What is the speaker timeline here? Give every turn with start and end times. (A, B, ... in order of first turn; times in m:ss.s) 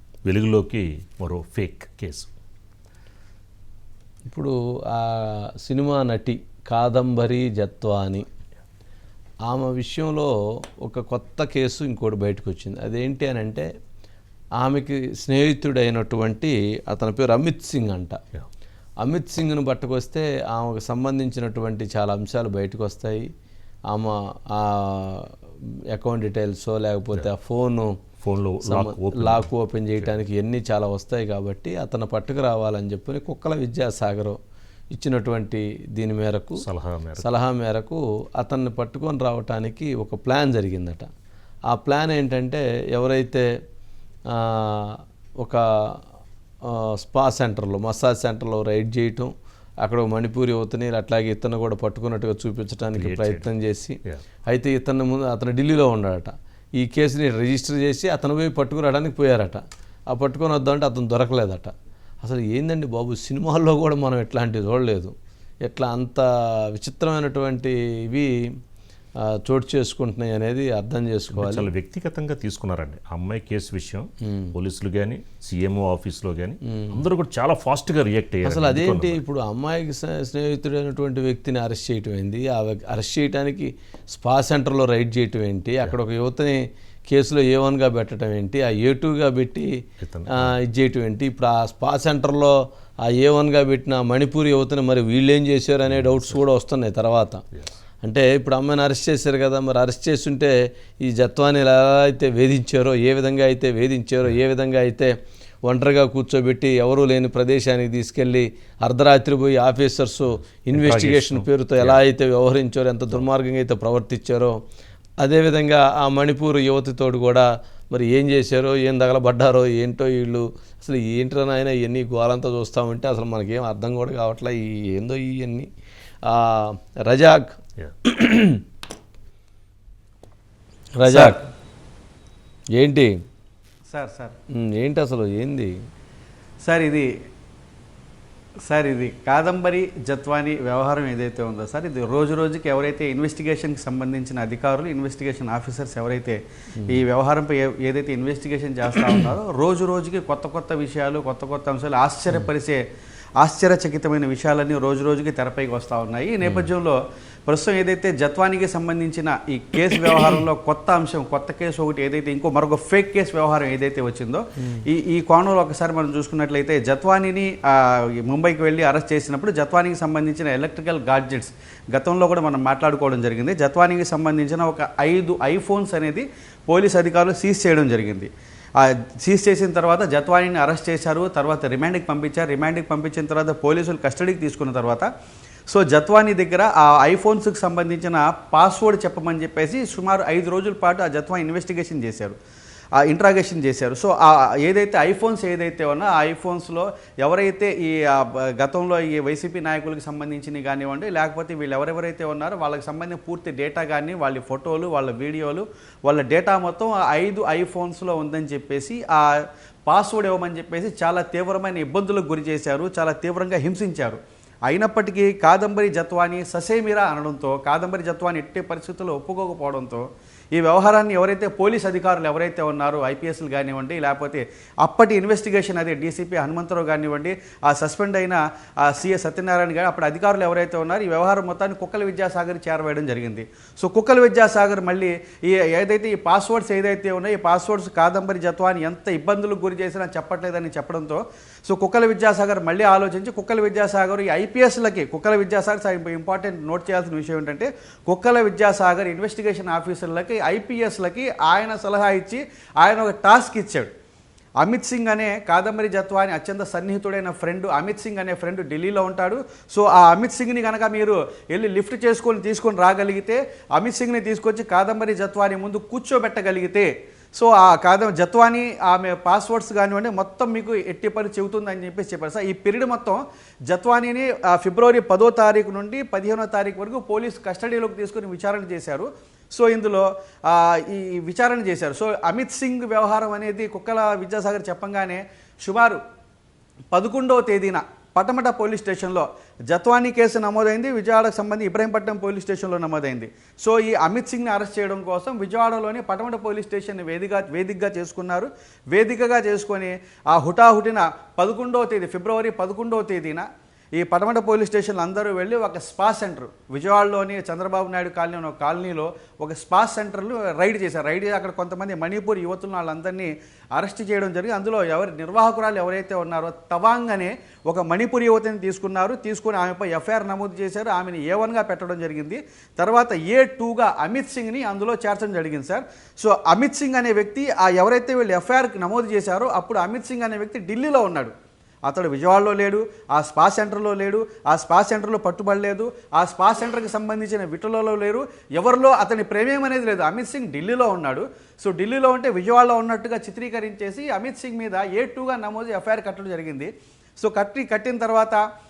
0:00.2-0:02.3 A
0:04.3-0:08.2 B
0:09.5-0:10.3 B
0:10.8-0:13.6 B
0:14.6-0:18.2 B
0:19.0-0:23.2 B
0:23.9-0:25.3 B
0:25.9-0:27.9 B
0:28.2-0:30.2 A
0:28.7-0:34.4 B
0:34.9-0:36.6 B
0:36.6-0:37.3 A
0:37.2-0:41.1 B
0:41.7-0:43.4 B
0:44.3-0:45.6 B
0:46.7-0:49.3 B
0:49.8-1:05.1 B
0:52.9-0:53.5 A
1:05.6-1:08.3 B
1:09.4-1:11.7 B
1:11.3-1:19.2 A
1:16.8-1:17.0 B
1:18.4-1:29.7 B
1:30.0-1:30.5 A
1:30.4-1:32.6 B
1:33.1-1:37.4 B
1:35.9-1:36.4 A
1:38.0-1:45.1 B
1:45.6-1:54.6 B
1:50.7-1:52.0 A
1:55.2-2:05.7 B
2:06.2-2:08.6 B
2:11.0-2:11.4 B
2:11.0-2:11.4 C
2:12.8-2:13.1 B
2:13.9-2:14.3 C
2:14.6-2:15.7 B
2:16.6-2:17.1 C
2:18.6-2:32.8 C
2:33.4-3:05.1 C
3:05.7-3:12.4 C
3:13.0-4:13.9 C
4:14.6-4:46.0 C
4:46.9-5:31.3 C
5:31.8-5:48.4 C